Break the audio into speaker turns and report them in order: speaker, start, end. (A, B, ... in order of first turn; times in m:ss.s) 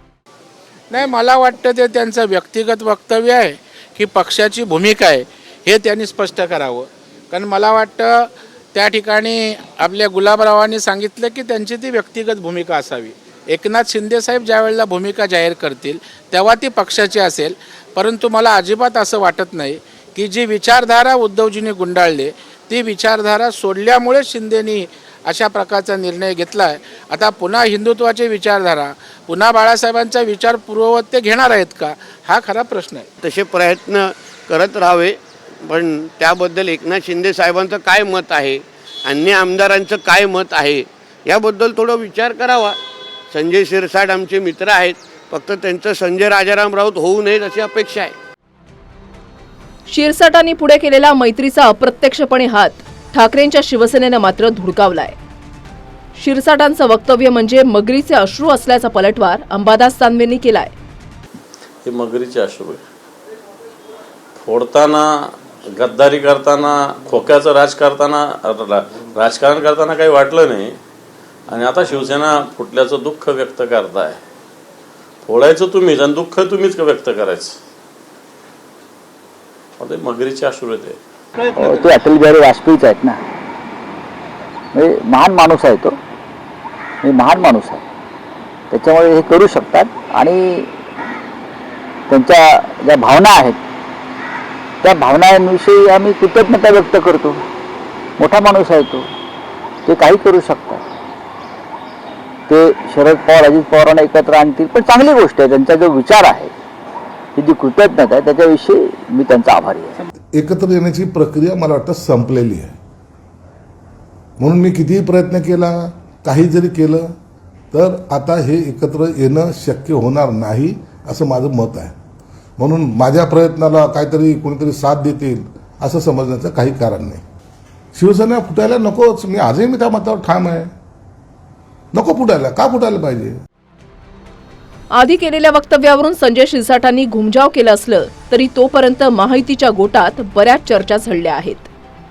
0:00.9-0:33.1 A
0:33.2-0:42.8 B
0:43.3-0:48.2 B
0:49.9-0:55.2 C
0:56.2-1:00.7 C
1:01.8-1:02.8 D
1:04.4-1:10.8 D
1:11.5-1:14.2 D
1:15.2-1:17.6 D
1:19.8-1:21.0 D
1:21.6-1:23.2 E
1:24.7-1:26.0 E
1:27.0-1:27.8 E
1:28.7-1:30.7 E
1:32.1-1:33.6 E
1:34.8-1:37.4 E
1:38.2-1:39.1 E
1:39.9-1:40.8 E
1:42.5-1:46.5 E
1:47.4-1:50.0 E
1:50.4-1:52.8 F
1:54.4-1:57.1 F
1:57.7-2:02.0 F
2:02.6-2:07.2 F
2:08.0-2:10.7 F
2:11.9-2:13.4 F
2:14.9-2:21.7 C